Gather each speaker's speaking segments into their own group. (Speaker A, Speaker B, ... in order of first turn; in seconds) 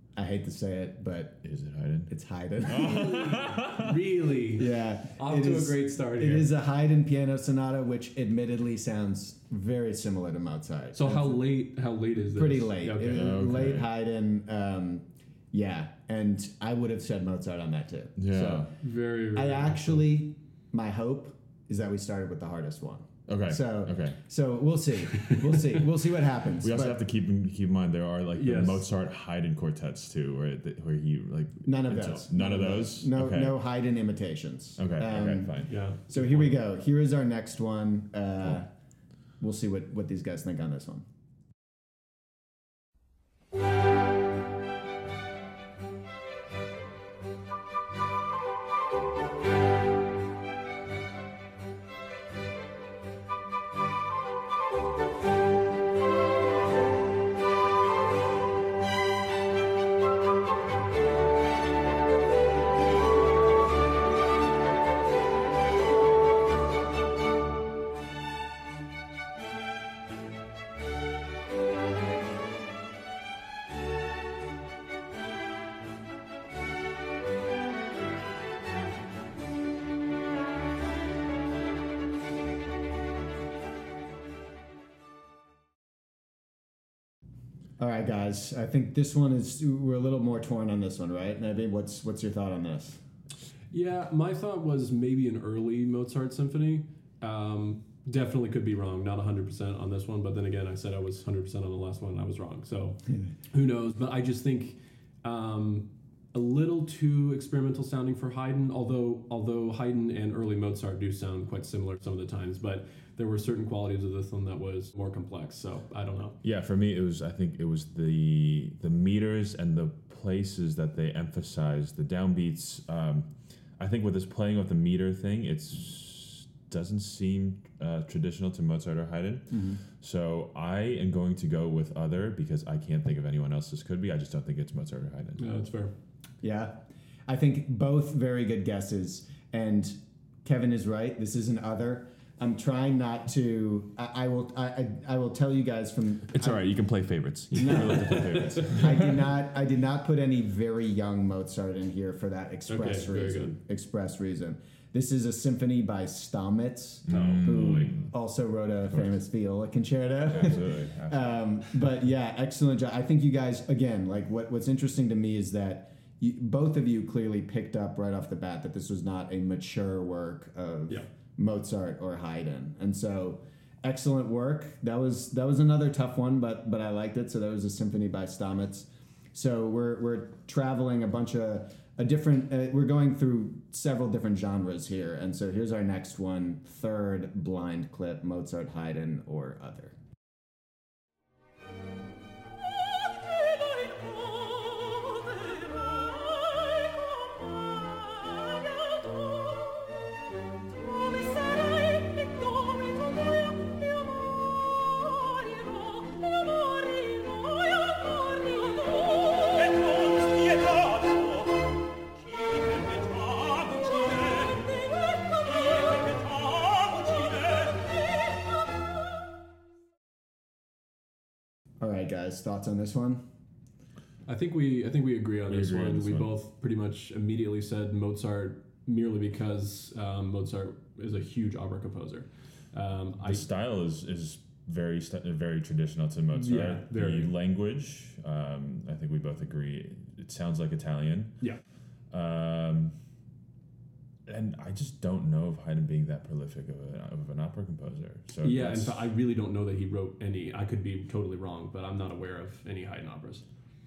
Speaker A: 0.2-1.4, 2.1-3.3, 4.6-11.4, 12.3-18.7, 19.4-27.0, 31.6-38.7, 39.4-41.1, 87.8-93.0, 129.5-129.8, 136.4-146.7, 147.5-190.0, 221.8-223.2
Speaker B: 1.4-2.1, 2.6-3.9, 13.1-13.9, 18.2-18.7, 23.3-24.2, 26.6-33.6, 34.8-35.8, 116.4-135.6, 146.3-149.2, 157.1-158.1, 158.9-159.2, 160.2-161.5, 225.5-226.3, 233.2-241.4, 242.1-243.0, 244.3-249.1
Speaker C: 2.8-6.5, 10.9-13.4, 18.8-20.1, 28.4-28.9, 35.7-36.5, 93.7-116.4, 135.4-135.9, 148.0-148.7, 152.7-153.6, 157.1-157.5, 224.3-233.4, 236.3-237.3, 248.4-253.5